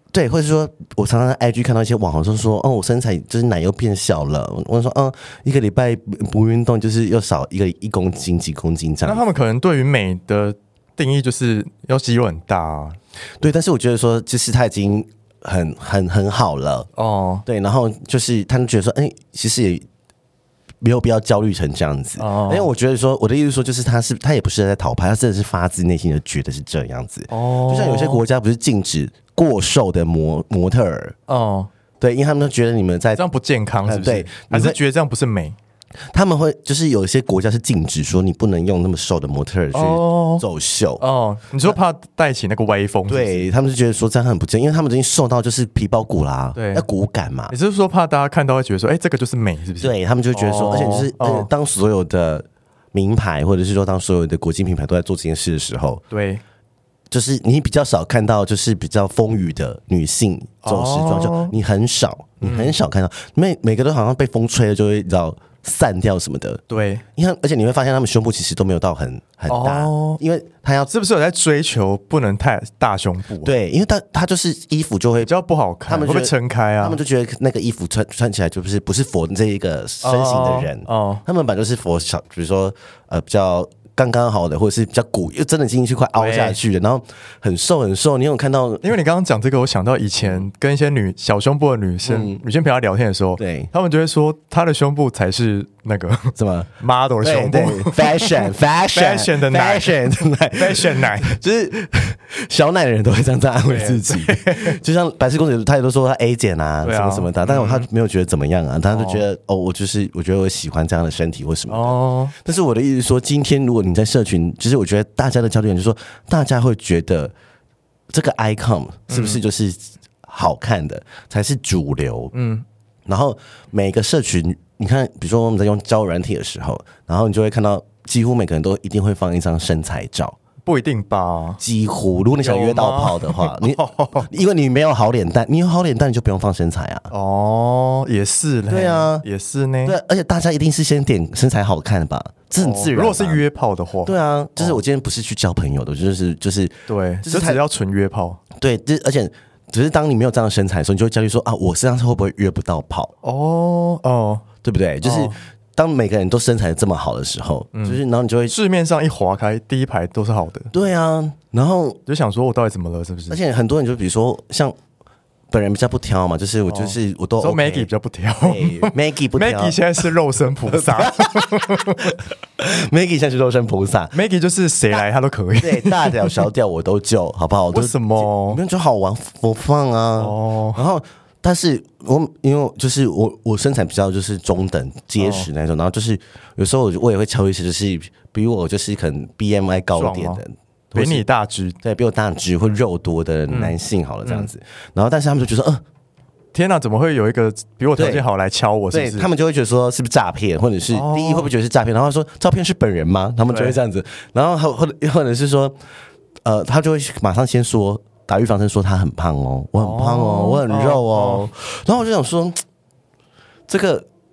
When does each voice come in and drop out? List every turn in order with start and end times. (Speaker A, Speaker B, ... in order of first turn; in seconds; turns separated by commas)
Speaker A: 0.1-9.2, Speaker B: 9.0-13.0, Speaker A: 13.4-16.9, Speaker B: 16.9-17.4, Speaker A: 17.4-19.8, Speaker A: 20.8-31.1, Speaker B: 22.2-22.7, Speaker B: 27.3-28.2, Speaker B: 31.3-31.7, Speaker A: 32.0-33.2, Speaker B: 33.1-35.5, Speaker A: 33.8-34.8, Speaker A: 36.1-41.0, Speaker B: 39.7-40.4, Speaker B: 41.0-43.5, Speaker A: 43.1-47.5, Speaker B: 46.5-46.8, Speaker B: 47.5-51.5, Speaker A: 49.8-56.0, Speaker B: 56.1-56.4, Speaker A: 57.1-66.6, Speaker B: 60.6-61.5, Speaker B: 62.4-62.8, Speaker B: 66.7-67.0, Speaker A: 67.2-70.9, Speaker B: 69.5-70.2, Speaker B: 70.9-73.5, Speaker A: 73.4-75.3, Speaker B: 75.2-77.0, Speaker A: 75.9-88.8, Speaker B: 80.0-81.2, Speaker B: 86.2-86.6, Speaker B: 88.8-101.3, Speaker A: 92.0-92.4, Speaker A: 93.4-93.7, Speaker A: 96.4-117.3, Speaker B: 103.7-104.8, Speaker B: 106.8-107.9, Speaker B: 108.9-109.2, Speaker B: 111.7-112.3, Speaker A: 118.1-122.3, Speaker B: 119.1-119.4, Speaker B: 122.3-122.6, Speaker A: 123.0-130.3, Speaker B: 130.6-131.6, Speaker A: 131.6-137.1, Speaker B: 132.4-134.3, Speaker B: 137.1-139.9, Speaker A: 138.7-139.2, Speaker A: 139.8-143.4, Speaker B: 142.6-144.8, Speaker A: 144.0-147.6, Speaker B: 146.9-148.4, Speaker A: 148.5-153.1, Speaker B: 153.2-154.4, Speaker A: 154.6-158.5, Speaker B: 155.0-155.3, Speaker B: 157.7-160.7, Speaker A: 160.7-162.0, Speaker B: 162.1-163.4, Speaker A: 163.3-164.8, Speaker A: 165.5-167.9, Speaker B: 166.7-172.1, Speaker A: 168.4-170.0, Speaker A: 170.7-174.1, Speaker B: 174.1-176.5, Speaker A: 175.6-191.2, Speaker B: 177.7-178.6, Speaker B: 180.2-180.8, Speaker B: 185.2-185.5, Speaker B: 189.9-190.4, Speaker B: 190.9-191.8, Speaker A: 191.8-195.8, Speaker B: 193.5-194.5, Speaker B: 196.5-199.3, Speaker A: 197.9-198.3, Speaker A: 198.9-205.8, Speaker B: 200.9-201.5, Speaker B: 203.5-203.8, Speaker A: 206.4-212.6, Speaker B: 209.8-211.5, Speaker A: 213.7-214.1